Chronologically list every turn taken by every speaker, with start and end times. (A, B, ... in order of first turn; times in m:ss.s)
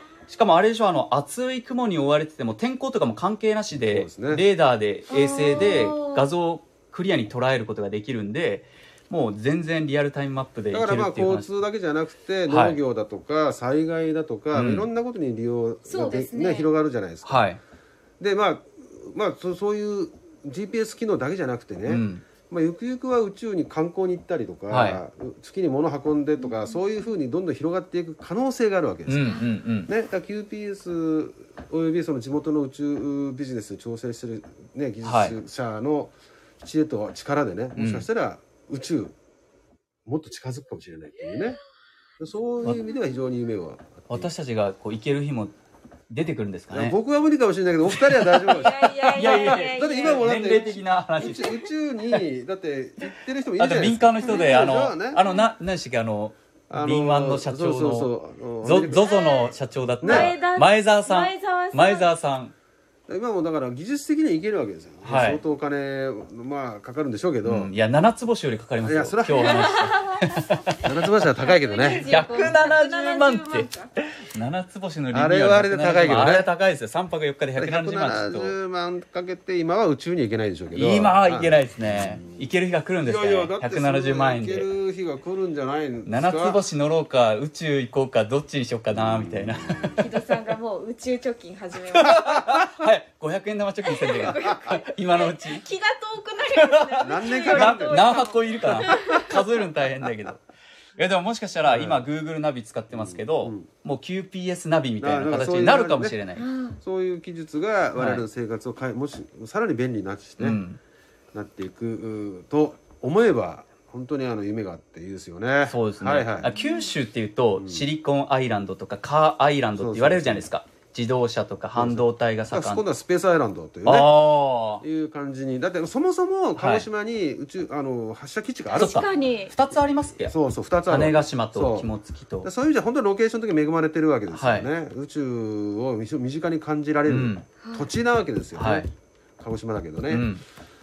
0:00.3-0:11.5 A
0:03.7-0:04.4 B
0:05.1-0:06.3 C
0:05.5-0:05.9 B
0:10.7-0:17.5 B
0:12.5-0:12.8 A
0:14.5-0:14.9 A
0:15.9-0:16.7 C
0:17.2-0:17.6 A
0:18.2-0:39.1 B
0:21.8-0:22.2 A
0:24.7-0:25.0 A
0:26.4-0:26.8 C
0:29.1-0:29.9 A
0:29.2-0:29.5 C
0:35.0-0:35.4 A
0:37.8-0:38.0 A
0:40.0-0:41.6 B
0:42.2-0:44.3 B
0:44.1-0:45.5 A
0:46.1-0:47.0 A
0:46.7-0:55.2 B
0:47.9-0:48.6 A
0:48.5-0:51.7 C
0:49.1-0:51.6 A
0:53.6-0:58.1 A
0:54.2-0:54.7 C
0:56.7-0:59.1 B
0:58.6-1:02.5 A
0:58.9-1:02.1 C
1:00.0-1:00.3 B
1:03.1-1:07.7 B
1:05.0-1:05.4 A
1:07.4-1:10.8 A
1:08.8-1:09.9 B
1:09.4-1:10.2 C
1:10.8-1:12.0 B
1:11.4-1:13.9 C
1:12.0-1:18.5 A
1:15.1-1:16.5 B
1:17.6-1:22.5 B
1:20.7-1:24.7 A
1:23.0-1:26.6 B
1:26.0-1:30.0 A
1:28.9-1:30.0 B
1:30.0-1:32.3 C
1:32.0-1:35.6 A
1:32.0-1:32.7 B
1:33.8-1:39.3 C
1:36.6-1:40.4 A
1:37.0-1:38.2 B
1:38.7-1:39.4 B
1:41.0-1:46.4 A
1:41.6-1:42.1 B
1:42.9-1:43.7 B
1:45.0-1:46.1 B
1:46.4-1:46.8 C
1:46.8-1:50.6 B
1:47.9-1:48.2 A
1:50.4-1:50.8 A
1:51.3-1:56.5 B
1:55.6-2:02.8 A
1:56.5-1:56.9 C
1:57.6-1:57.9 B
1:59.8-2:00.5 B
2:01.8-2:04.3 B
2:03.8-2:04.8 A
2:04.8-2:09.1 B
2:06.5-2:06.8 A
2:08.7-2:09.5 C
2:08.8-2:10.3 A
2:10.2-2:11.9 B
2:10.9-2:12.5 A
2:12.4-2:18.9 B
2:14.3-2:14.7 A
2:17.1-2:17.4 A
2:17.6-2:17.9 C
2:18.6-2:18.9 A
2:19.4-2:20.3 B
2:20.1-2:20.4 A